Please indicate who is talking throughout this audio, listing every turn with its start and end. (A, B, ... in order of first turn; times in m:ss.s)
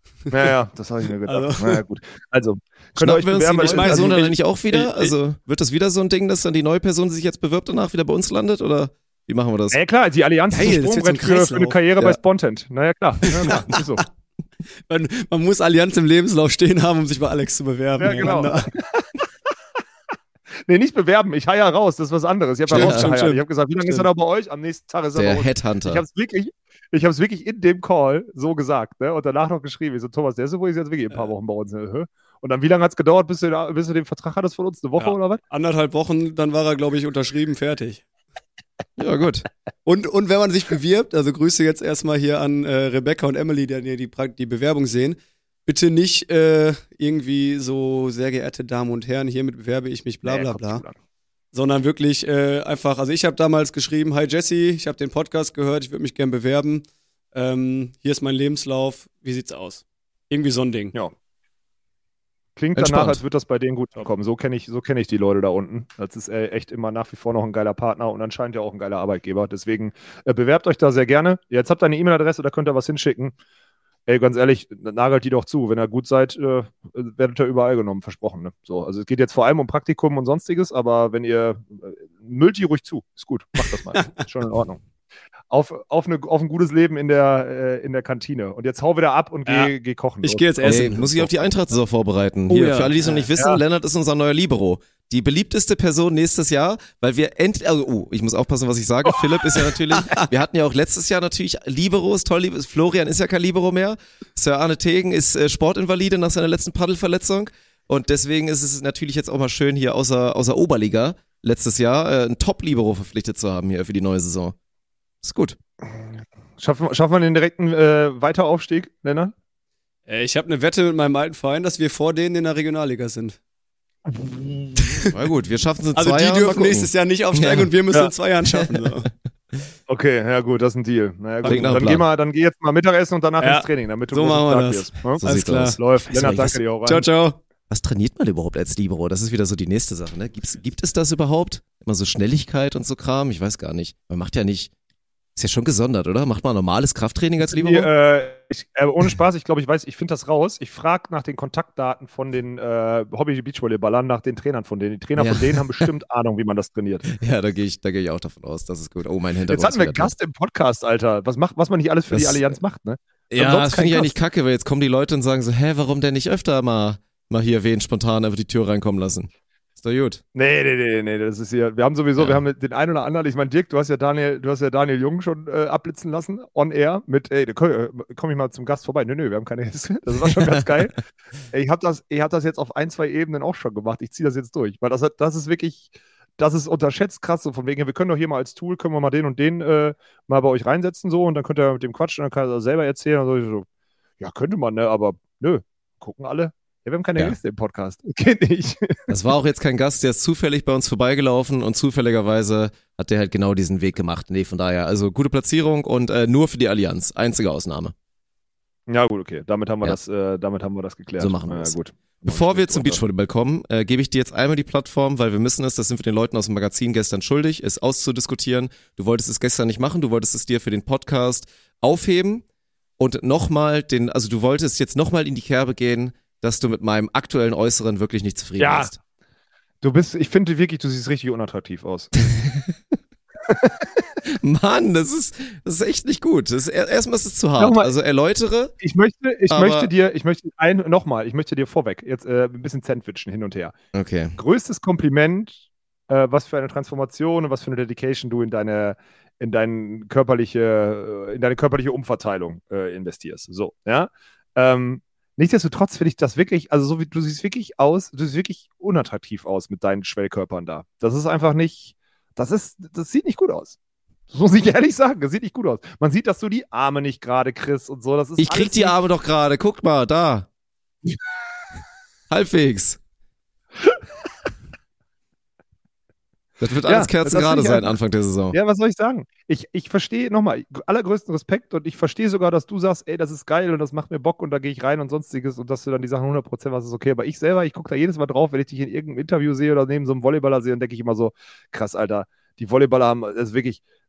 0:00.3-0:00.5 A
0:00.3-0:04.3 B
0:01.2-0:01.8 A
0:03.0-0:09.8 C
0:03.6-0:05.1 A
0:09.7-0:14.0 B
0:10.5-0:12.2 A
0:13.2-0:13.9 A
0:14.9-0:18.7 A
0:18.0-0:19.3 B
0:20.6-0:35.4 B
0:22.7-0:24.1 A
0:22.7-0:23.1 C
0:25.2-0:26.0 C
0:35.0-0:38.0 A
0:39.0-0:39.4 C
0:39.9-0:50.8 A
0:50.2-0:51.0 B
0:51.5-1:00.9 A
1:02.6-1:13.4 B
1:02.8-1:03.2 C
1:14.1-1:24.8 B
1:25.5-1:31.0 B
1:30.2-1:31.5 A
1:30.6-1:54.6 C
1:32.5-1:33.3 A
1:55.2-1:55.6 C
1:55.8-1:59.3 B
2:00.1-2:03.4 A
2:04.1-2:05.0 B
2:04.8-2:05.1 A
2:05.1-2:07.7 C
2:06.0-2:09.1 A
2:08.4-2:09.1 C
2:09.9-2:17.1 B
2:11.4-2:11.9 A
2:11.4-2:12.0 C
2:13.4-2:17.4 A
2:15.2-2:16.6 C
2:17.7-2:24.7 C
2:25.4-2:27.9 C
2:27.4-2:37.1 B
2:35.2-2:35.9 C
2:37.1-2:40.1 C
2:39.5-2:44.2 B
2:42.1-2:42.4 C
2:43.3-2:50.2 C
2:50.3-3:13.7 B
3:14.2-3:19.1 B
3:19.1-3:27.9 C
3:28.9-3:33.0 B
3:31.2-3:42.4 C
3:43.0-3:49.0 C
3:48.6-3:48.9 B
3:49.8-3:52.1 B
3:52.2-3:52.7 C
3:53.4-3:54.1 B
3:54.3-3:58.7 C
3:57.6-3:57.9 B
3:58.8-4:03.7 B
3:59.5-3:59.9 C
4:03.9-4:04.4 C
4:04.4-4:23.8 B
4:24.3-4:29.0 B
4:28.4-4:30.5 C
4:32.3-4:33.0 C
4:36.6-4:38.6 C
4:36.9-4:38.0 B
4:38.5-4:53.8 B